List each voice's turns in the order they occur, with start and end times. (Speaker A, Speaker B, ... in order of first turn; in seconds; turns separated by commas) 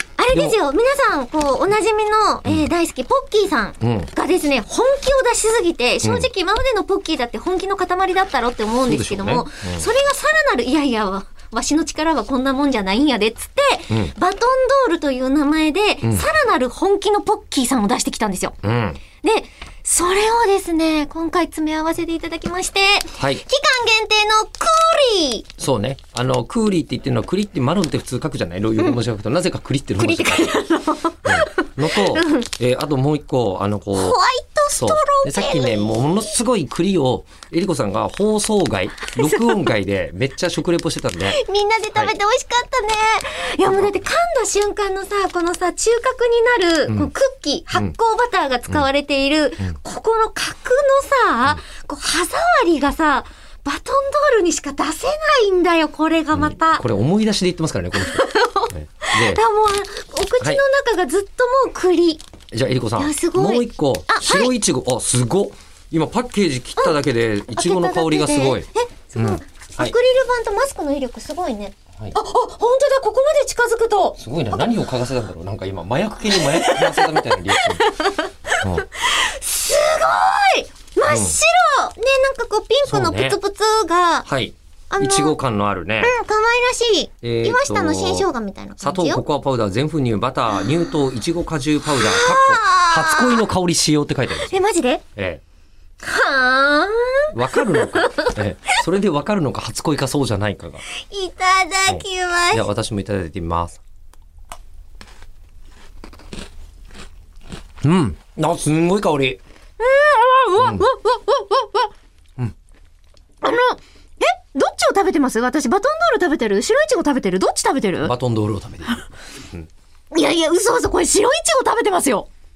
Speaker A: 0.2-18.6, Speaker B: 0.3-0.6, Speaker B: 3.8-4.1, Speaker B: 6.0-6.3, Speaker B: 8.8-9.8, Speaker B: 18.6-19.0, Speaker A: 19.2-25.5, Speaker B: 23.2-23.4, Speaker B: 25.6-30.6, Speaker A: 30.0-32.5, Speaker B: 31.2-34.2, Speaker A: 33.9-36.0, Speaker B: 34.8-41.4, Speaker A: 39.2-39.6, Speaker A: 41.3-56.8, Speaker B: 56.3-59.4, Speaker A: 58.0-62.2, Speaker B: 62.5-69.9, Speaker A: 63.0-64.5, Speaker A: 67.5-74.2, Speaker B: 74.2-77.9, Speaker A: 76.3-84.3, Speaker B: 78.6-78.8, Speaker B: 81.0-81.4, Speaker B: 82.9-83.4, Speaker B: 84.2-86.1, Speaker A: 84.9-85.4, Speaker A: 86.0-89.2, Speaker B: 87.2-88.3, Speaker B: 88.8-94.6, Speaker A: 91.8-93.5, Speaker A: 94.4-95.0, Speaker B: 95.2-95.4, Speaker A: 96.0-98.3, Speaker B: 97.3-100.8, Speaker A: 100.9-102.7, Speaker B: 101.9-103.8, Speaker B: 107.8-109.4, Speaker A: 109.8-111.9, Speaker B: 110.5-110.8, Speaker A: 113.4-118.1, Speaker B: 118.0-119.7, Speaker A: 120.1-122.3